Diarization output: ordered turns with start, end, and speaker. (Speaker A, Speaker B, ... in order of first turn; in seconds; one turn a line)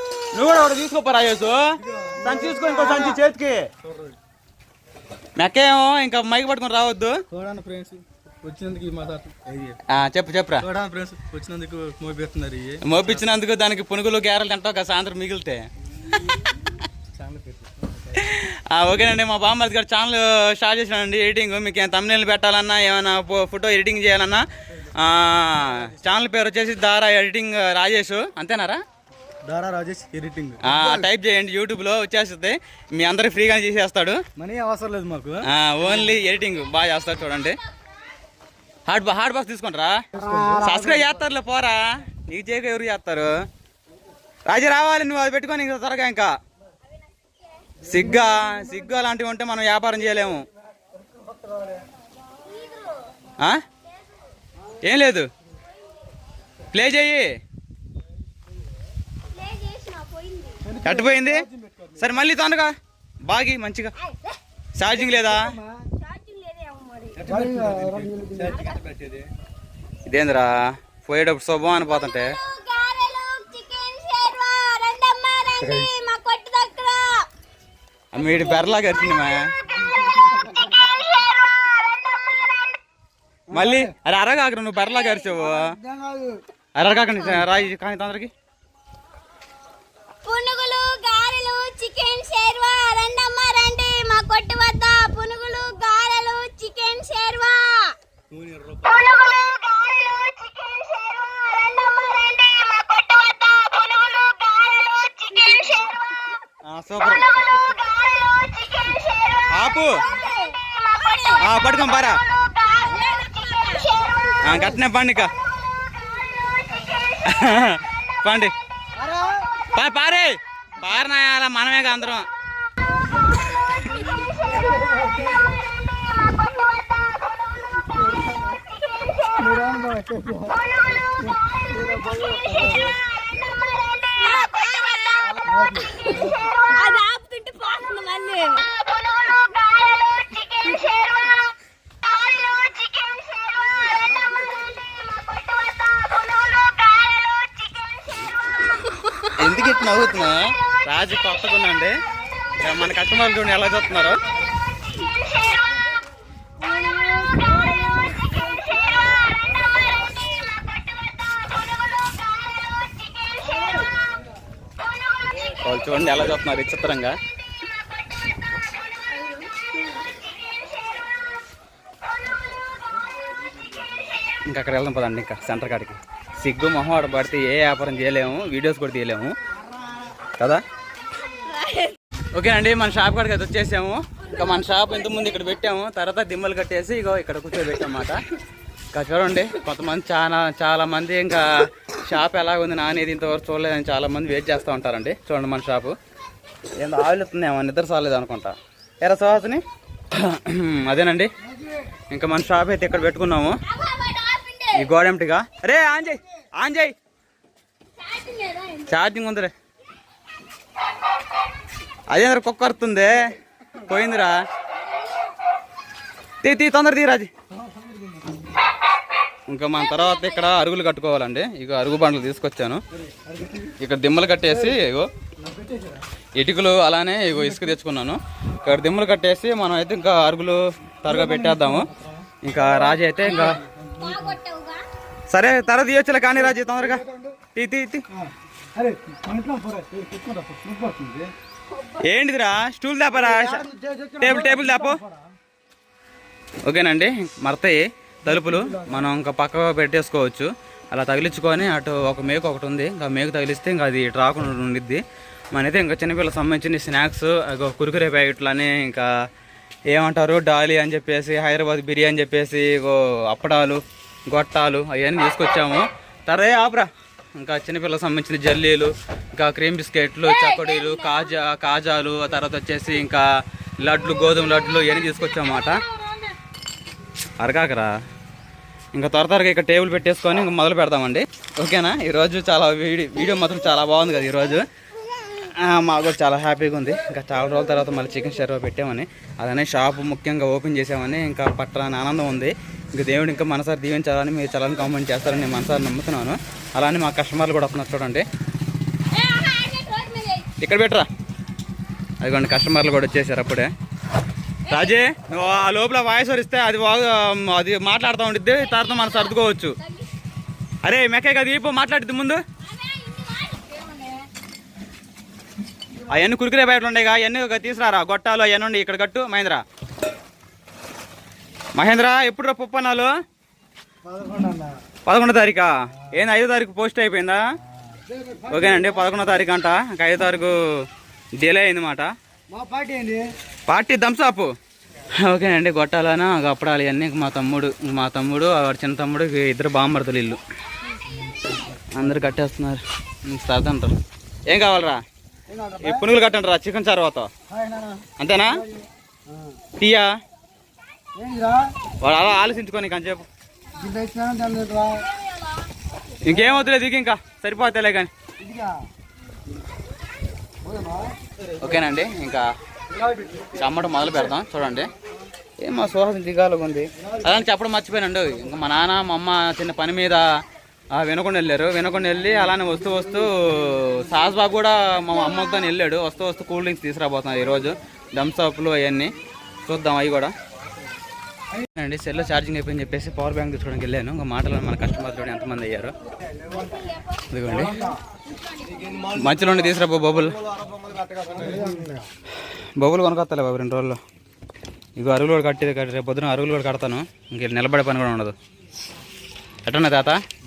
Speaker A: 0.3-3.6
Speaker B: 1.8-3.2
Speaker B: 3.9-4.2
Speaker A: 5.4-7.2
Speaker B: 7.3-9.8
Speaker A: 9.9-10.7
Speaker B: 10.6-13.2
Speaker A: 12.8-16.4
Speaker B: 17.1-18.2
Speaker A: 18.1-28.8
Speaker B: 29.4-31.1
Speaker A: 30.6-34.2
Speaker B: 34.4-35.5
Speaker A: 35.5-37.6
Speaker A: 38.9-40.0
Speaker B: 40.2-41.1
Speaker A: 40.6-43.3
Speaker A: 44.5-46.3
Speaker A: 47.8-50.4
Speaker B: 51.5-51.8
Speaker C: 52.4-53.1
Speaker A: 54.8-55.3
Speaker A: 56.7-57.3
Speaker C: 59.3-60.7
Speaker B: 60.7-62.0
Speaker A: 60.8-62.7
Speaker A: 63.3-63.9
Speaker C: 64.1-64.3
Speaker A: 64.8-65.6
Speaker B: 65.1-65.8
Speaker C: 65.9-67.3
Speaker B: 67.2-69.3
Speaker C: 68.5-68.9
Speaker A: 70.1-72.4
Speaker C: 71.8-77.3
Speaker A: 78.1-79.5
Speaker C: 78.3-79.0
Speaker C: 80.9-81.2
Speaker B: 83.5-83.9
Speaker A: 83.5-85.8
Speaker C: 84.8-85.2
Speaker B: 85.5-86.4
Speaker A: 86.8-88.3
Speaker C: 90.2-98.0
Speaker B: 98.3-99.0
Speaker C: 99.3-106.0
Speaker A: 106.6-107.3
Speaker A: 109.5-110.0
Speaker C: 110.1-111.5
Speaker A: 111.4-112.2
Speaker C: 112.6-114.3
Speaker A: 114.4-115.3
Speaker A: 117.1-118.5
Speaker B: 119.0-119.4
Speaker A: 119.7-122.3
Speaker C: 123.9-124.3
Speaker B: 124.3-125.5
Speaker B: 129.4-130.6
Speaker B: 131.5-132.9
Speaker C: 134.2-138.7
Speaker B: 135.4-136.5
Speaker A: 149.3-151.9
Speaker A: 152.6-154.2
Speaker C: 156.6-158.8
Speaker A: 165.6-167.1
Speaker C: 169.1-170.1
Speaker A: 174.5-179.3
Speaker C: 181.4-182.0
Speaker A: 182.3-188.2
Speaker C: 184.4-185.2
Speaker A: 188.9-195.9
Speaker A: 196.8-199.6
Speaker A: 200.1-201.3
Speaker A: 202.1-203.6
Speaker C: 203.7-204.9
Speaker A: 204.7-206.9
Speaker C: 208.0-209.0
Speaker A: 208.9-209.5
Speaker A: 212.1-213.3
Speaker A: 213.8-214.3
Speaker C: 214.8-215.3
Speaker A: 216.4-217.3
Speaker B: 217.6-218.3
Speaker A: 219.5-222.8
Speaker C: 219.8-220.6
Speaker B: 223.1-223.8
Speaker A: 223.8-225.1
Speaker B: 225.4-226.0
Speaker A: 226.4-231.9
Speaker B: 231.1-232.9
Speaker A: 232.4-233.6
Speaker C: 233.2-234.8
Speaker B: 233.6-234.1
Speaker A: 235.3-238.0
Speaker B: 236.6-237.4
Speaker B: 238.2-241.3
Speaker A: 242.0-243.7
Speaker B: 243.2-245.2
Speaker A: 244.2-245.0
Speaker A: 246.7-255.0
Speaker B: 248.4-249.1
Speaker A: 255.5-259.1
Speaker A: 259.9-273.3
Speaker C: 270.3-271.2
Speaker A: 273.8-275.8
Speaker A: 277.4-277.9
Speaker A: 278.9-284.6
Speaker A: 285.3-298.2
Speaker C: 299.1-300.5
Speaker A: 300.6-301.1
Speaker A: 302.2-303.7
Speaker C: 304.7-305.0
Speaker A: 304.7-309.8
Speaker C: 308.6-310.1
Speaker A: 310.8-312.4
Speaker C: 312.6-314.3
Speaker A: 316.1-319.6
Speaker A: 321.8-323.1
Speaker B: 324.1-324.8
Speaker A: 325.1-327.4
Speaker B: 328.0-328.8
Speaker A: 328.5-330.6
Speaker A: 331.4-332.1
Speaker B: 332.5-333.3
Speaker A: 333.7-334.5
Speaker A: 335.2-340.4
Speaker A: 341.9-343.9
Speaker A: 344.5-345.0
Speaker B: 345.5-346.0
Speaker A: 345.8-347.3
Speaker B: 347.5-348.1
Speaker A: 348.2-348.6
Speaker A: 349.8-350.1
Speaker B: 351.1-351.7
Speaker A: 352.0-353.3
Speaker B: 353.8-355.1
Speaker A: 356.2-358.1
Speaker B: 358.4-358.8
Speaker B: 360.6-361.2
Speaker A: 361.6-362.5
Speaker B: 362.9-363.5
Speaker A: 363.6-364.9
Speaker A: 365.6-370.2
Speaker A: 371.0-379.1
Speaker A: 379.7-380.3
Speaker A: 381.8-385.9
Speaker A: 387.3-387.9
Speaker B: 387.6-388.0
Speaker B: 388.8-389.4
Speaker A: 389.1-390.4
Speaker B: 390.6-392.1
Speaker A: 392.8-394.0
Speaker A: 395.0-398.4
Speaker A: 399.7-400.2